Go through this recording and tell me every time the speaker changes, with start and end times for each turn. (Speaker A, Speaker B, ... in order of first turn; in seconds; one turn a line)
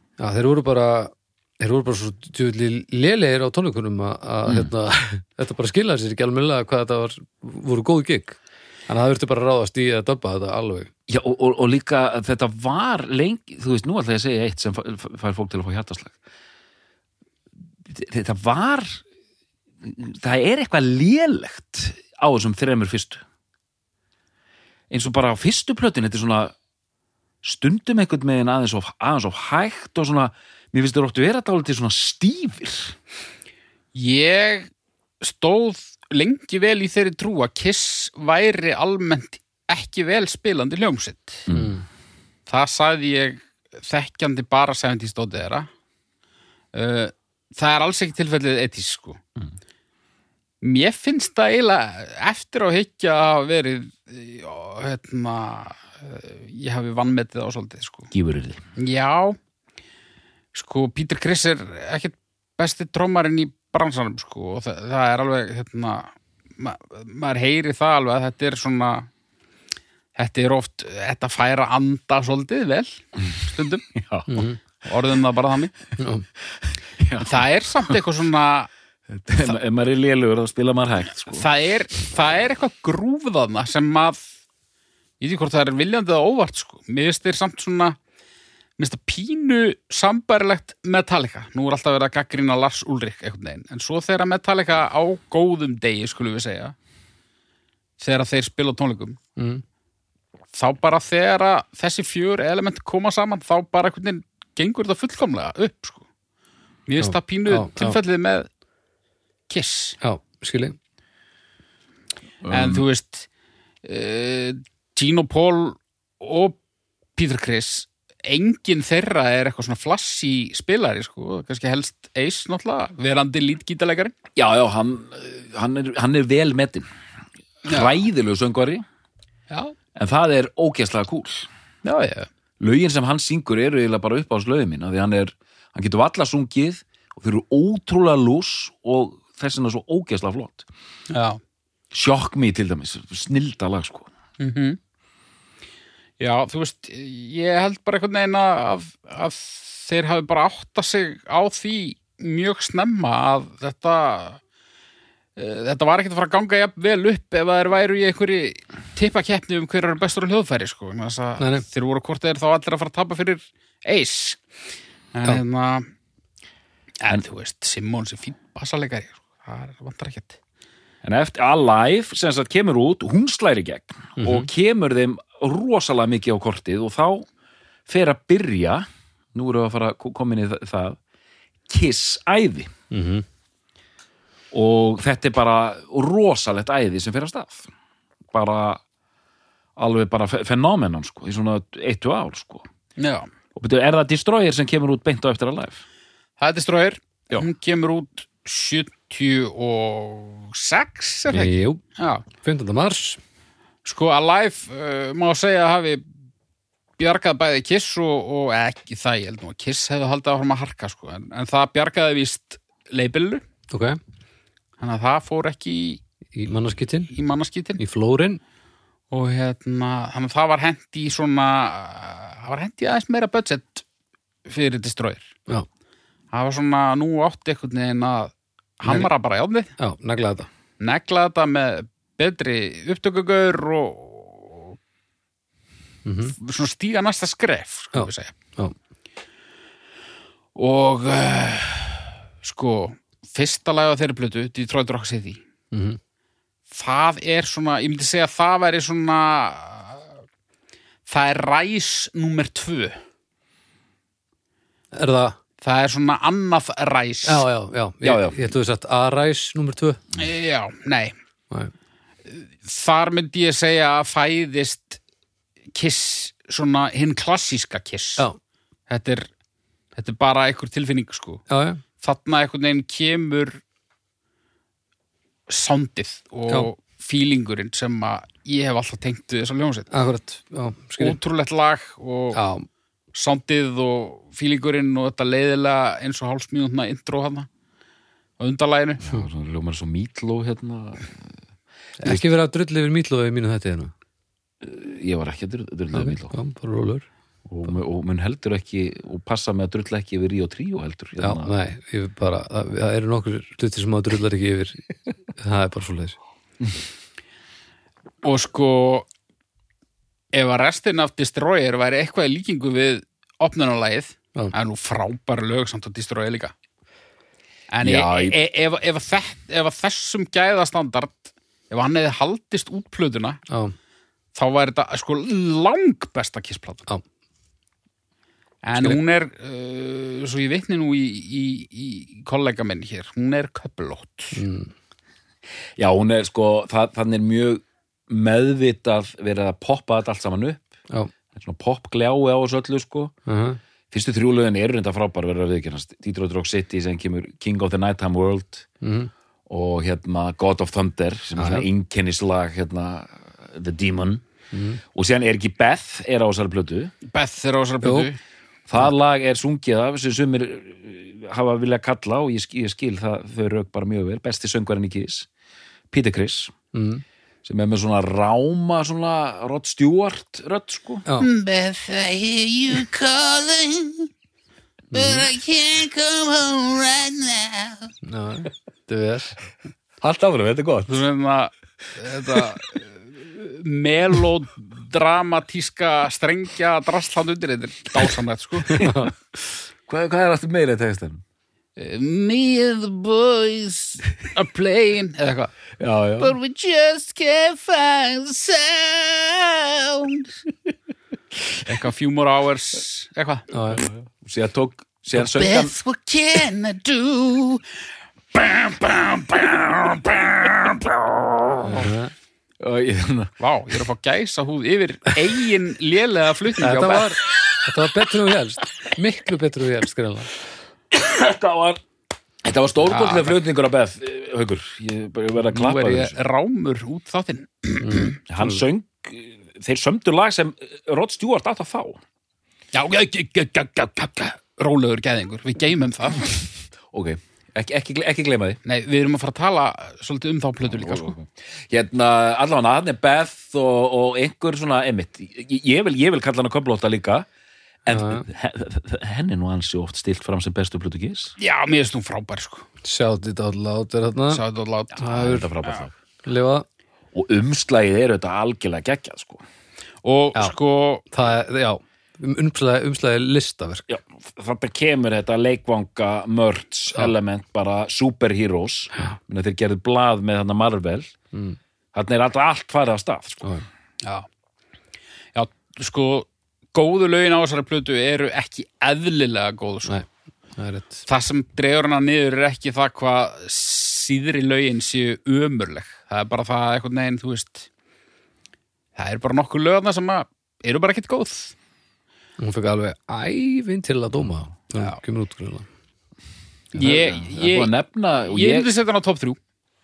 Speaker A: 0.2-10.9
Speaker B: 11.1-16.1
Speaker B: 17.9-19.0
Speaker B: 19.8-23.2
Speaker B: 24.9-26.5
Speaker B: 27.4-32.9
Speaker C: 33.9-41.5
Speaker B: 41.5-41.8
Speaker A: 41.5-41.8
Speaker C: 42.5-45.7
Speaker C: 46.7-49.2
Speaker C: 50.6-58.1
Speaker B: 58.1-58.6
Speaker C: 58.8-59.4
Speaker C: 60.5-69.1
Speaker C: 70.2-73.9
Speaker B: 73.9-74.5
Speaker A: 74.3-74.6
Speaker C: 74.8-75.7
Speaker A: 76.0-76.2
Speaker B: 77.0-78.0
Speaker C: 77.2-78.7
Speaker B: 79.1-81.5
Speaker C: 81.3-84.3
Speaker C: 85.2-88.0
Speaker C: 88.8-96.7
Speaker C: 98.0-99.2
Speaker A: 99.4-99.6
Speaker C: 100.5-106.0
Speaker C: 106.8-108.5
Speaker A: 107.0-108.0
Speaker C: 109.5-110.0
Speaker A: 110.0-110.8
Speaker B: 112.4-112.8
Speaker C: 112.5-113.3
Speaker C: 113.8-116.6
Speaker C: 117.2-124.1
Speaker B: 124.3-126.9
Speaker C: 127.7-128.0
Speaker B: 127.7-128.8
Speaker B: 129.9-131.5
Speaker C: 131.8-132.3
Speaker B: 132.6-140.7
Speaker C: 141.1-141.4
Speaker B: 141.9-144.1
Speaker C: 144.4-144.8
Speaker C: 146.2-154.4
Speaker C: 155.4-164.4
Speaker A: 161.4-161.6
Speaker C: 165.1-165.8
Speaker C: 167.0-170.4
Speaker B: 171.0-177.2
Speaker A: 174.2-174.5
Speaker B: 177.9-181.0
Speaker B: 181.7-182.7
Speaker A: 182.9-183.2
Speaker B: 184.5-187.7
Speaker B: 188.3-188.8
Speaker B: 189.8-192.7
Speaker C: 193.0-193.3
Speaker B: 193.5-195.8
Speaker C: 196.4-202.3
Speaker A: 201.3-201.8
Speaker A: 202.4-203.2
Speaker C: 203.8-206.0
Speaker C: 207.0-213.4
Speaker A: 213.7-214.0
Speaker C: 214.8-216.0
Speaker A: 216.3-217.1
Speaker C: 217.1-217.8
Speaker A: 217.8-218.4
Speaker C: 219.1-223.8
Speaker C: 224.4-225.3
Speaker C: 226.3-229.7
Speaker A: 229.8-230.5
Speaker C: 230.8-234.8
Speaker A: 236.0-236.3
Speaker C: 236.2-238.3
Speaker A: 237.9-238.7
Speaker C: 240.5-245.4
Speaker A: 245.7-246.0
Speaker C: 246.7-250.1
Speaker C: 251.1-253.0
Speaker A: 254.9-255.4
Speaker C: 255.6-257.4
Speaker A: 257.2-260.0
Speaker B: 258.0-258.4
Speaker C: 260.1-261.1
Speaker C: 262.3-265.0
Speaker C: 265.7-268.3
Speaker C: 268.9-269.3
Speaker C: 269.9-271.4
Speaker A: 271.5-271.8
Speaker C: 272.0-273.6
Speaker C: 275.5-279.9
Speaker A: 279.9-281.2
Speaker C: 281.0-282.4
Speaker A: 282.3-282.6
Speaker C: 283.1-287.5
Speaker C: 288.4-289.0
Speaker B: 289.0-291.3
Speaker A: 292.0-293.9
Speaker B: 294.6-296.4
Speaker A: 295.9-297.0
Speaker B: 297.5-301.5
Speaker A: 301.2-306.2
Speaker C: 308.2-309.1
Speaker C: 310.3-316.5
Speaker C: 317.7-323.4
Speaker B: 317.8-318.4
Speaker A: 323.5-323.7
Speaker C: 324.3-326.8
Speaker C: 328.6-334.4
Speaker A: 334.3-334.7
Speaker B: 335.8-340.6
Speaker B: 341.3-343.1
Speaker A: 343.2-343.6
Speaker B: 343.9-348.7
Speaker A: 348.8-349.1
Speaker B: 349.5-354.2
Speaker A: 351.4-351.7
Speaker A: 354.5-354.8
Speaker B: 354.9-356.9
Speaker C: 357.0-358.2
Speaker A: 357.8-358.1
Speaker B: 358.7-365.3
Speaker B: 365.9-366.5
Speaker A: 366.7-367.0
Speaker B: 367.4-371.1
Speaker C: 371.2-374.1
Speaker A: 374.9-375.2
Speaker C: 374.9-377.9
Speaker A: 378.0-379.3
Speaker B: 380.0-381.0
Speaker C: 380.9-388.8
Speaker B: 388.7-389.1
Speaker A: 388.7-389.1
Speaker B: 389.9-391.2
Speaker C: 391.8-395.5
Speaker B: 395.8-396.3
Speaker C: 396.2-400.3
Speaker C: 401.6-403.5
Speaker A: 403.5-403.8
Speaker B: 403.8-405.7
Speaker C: 405.2-407.6
Speaker C: 408.3-410.9
Speaker B: 411.4-411.7
Speaker A: 411.6-412.1
Speaker B: 412.6-413.3
Speaker C: 413.4-417.1
Speaker A: 416.6-420.3
Speaker B: 420.9-421.8
Speaker B: 422.4-426.2
Speaker C: 422.9-423.4
Speaker C: 425.5-428.2
Speaker A: 427.8-428.6
Speaker B: 428.3-432.0
Speaker C: 432.7-436.5
Speaker B: 436.9-438.6
Speaker C: 438.6-441.1
Speaker B: 440.6-447.3
Speaker B: 447.8-451.3
Speaker A: 447.9-448.3
Speaker C: 451.4-452.7
Speaker A: 452.8-454.4
Speaker C: 454.3-455.8
Speaker A: 455.0-455.5
Speaker B: 455.0-455.9
Speaker A: 456.2-456.6
Speaker B: 457.1-459.4
Speaker C: 460.0-461.0
Speaker A: 461.1-463.9
Speaker B: 463.9-471.1
Speaker A: 471.3-471.6
Speaker B: 471.9-473.5
Speaker C: 475.3-480.0
Speaker A: 480.6-481.0
Speaker C: 481.1-487.7
Speaker C: 488.9-491.5
Speaker A: 492.4-495.7
Speaker C: 496.7-497.7
Speaker B: 496.8-498.7
Speaker C: 498.3-499.4